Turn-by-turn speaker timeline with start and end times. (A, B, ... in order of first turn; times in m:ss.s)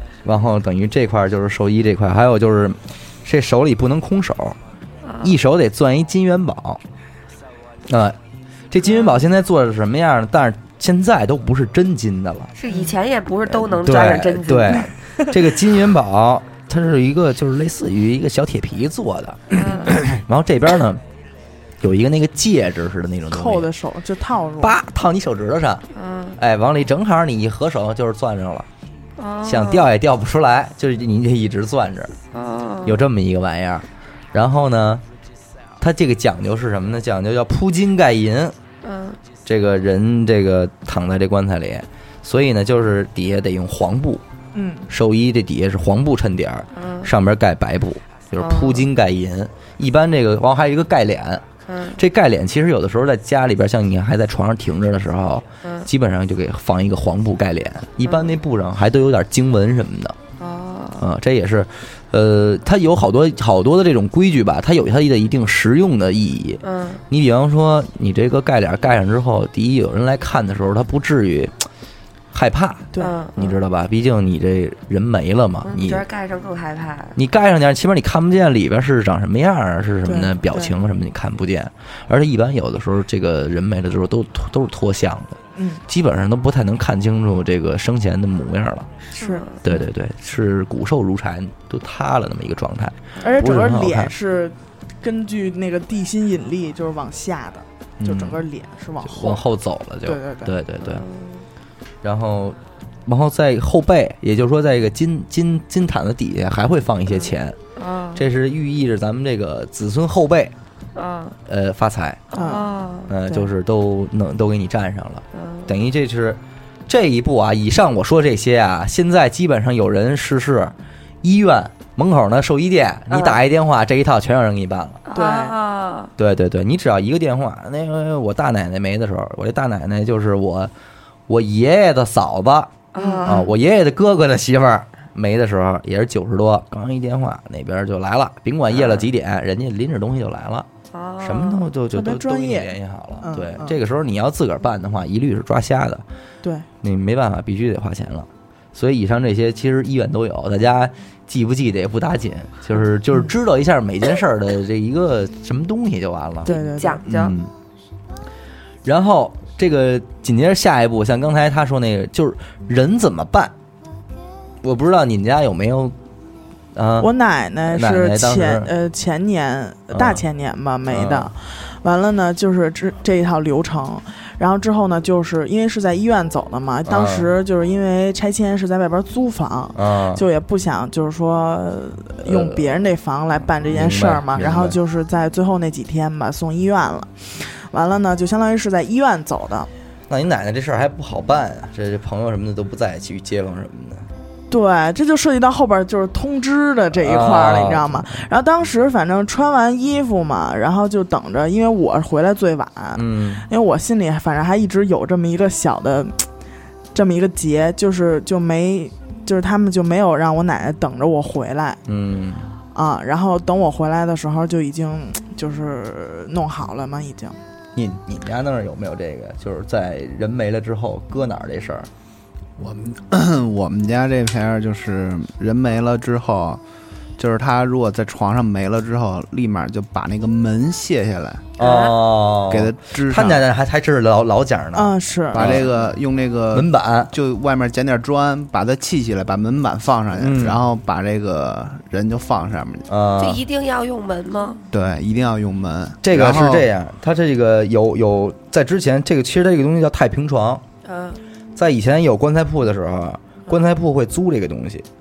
0:00.2-0:04.6 A
0:05.0-0:05.3 B
0:05.2-0:06.8 A
0:07.9-0:08.2 A
0:08.7-0:12.5 A
0:08.8-0:09.2 B
0:12.6-0:14.8 B
0:13.4-0:21.0 A
0:19.5-0:20.0 B
0:21.8-0:23.7 A
0:23.3-0:24.8 C
0:24.6-0:25.8 A
0:25.9-0:26.4 B
0:26.4-0:28.7 A
0:29.2-0:29.9 B
0:29.4-0:32.1 A
0:32.3-0:33.0 B
0:32.8-0:35.0 A
0:35.8-0:38.6 A
0:38.8-0:39.2 B
0:39.4-0:44.2 A
0:44.5-0:44.9 C
0:44.9-0:51.4 A
0:46.7-0:47.1 B
0:48.4-0:48.9 B
0:51.6-0:52.0 B
0:52.0-1:00.2 A
0:55.6-0:55.9 B
0:58.0-0:58.4 B
1:00.4-1:01.1 B
1:01.0-1:11.6 A
1:06.6-1:07.0 B
1:12.3-1:16.0 A
1:13.0-1:13.6 B
1:15.6-1:17.2 B
1:17.2-1:28.9 A
1:20.0-1:20.7 C
1:25.6-1:25.8 C
1:29.1-1:29.6 B
1:29.2-1:29.8 C
1:29.6-1:34.1 A
1:33.2-1:39.4 C
1:38.0-1:38.4 A
1:39.0-1:41.0 A
1:40.0-1:40.6 C
1:40.8-1:41.4 B
1:42.0-1:47.6 A
1:47.8-1:48.2 B
1:48.1-1:50.5 A
1:50.9-1:51.4 B
1:51.5-1:52.3 A
1:52.3-1:52.7 C
1:52.3-1:53.1 B
1:53.1-2:05.0 A
1:55.3-1:55.7 B
2:03.1-2:03.4 B
2:05.1-2:06.1 B
2:05.1-2:05.6 C
2:06.2-2:10.7 A
2:11.3-2:20.7 A
2:12.9-2:13.5 B
2:13.0-2:13.5 C
2:18.7-2:19.1 B
2:20.9-2:21.7 B
2:21.2-2:26.0 A
2:21.9-2:23.8 C
2:26.4-2:26.7 C
2:26.8-2:37.5 A
2:36.4-2:37.0 C
2:36.5-2:37.3 B
2:38.8-2:43.5 A
2:44.6-2:46.0 A
2:46.7-2:47.1 A
2:47.0-3:09.7 C
2:47.7-2:48.7 A
2:49.9-2:50.2 A
2:50.9-2:51.3 A
2:56.8-2:57.3 A
2:59.7-3:00.2 A
3:02.2-3:02.6 A
3:03.7-3:04.8 A
3:10.1-3:14.1 A
3:14.5-3:26.2 C
3:17.0-3:18.2 A
3:22.9-3:23.4 A
3:26.9-3:31.8 C
3:31.9-3:32.5 A
3:32.7-3:37.4 C
3:37.7-3:41.9 A
3:42.6-3:46.6 D
3:47.2-3:51.5 D
3:51.6-3:55.9 A
3:51.6-3:52.0 B
3:52.5-3:53.4 D
3:54.7-3:55.6 C
3:55.3-4:02.9 D
3:56.5-3:57.1 A
4:00.1-4:00.6 A
4:02.9-4:03.4 A
4:03.2-4:04.6 B
4:04.7-4:06.7 D
4:06.0-4:10.6 A
4:10.8-4:11.2 B
4:11.6-4:14.8 A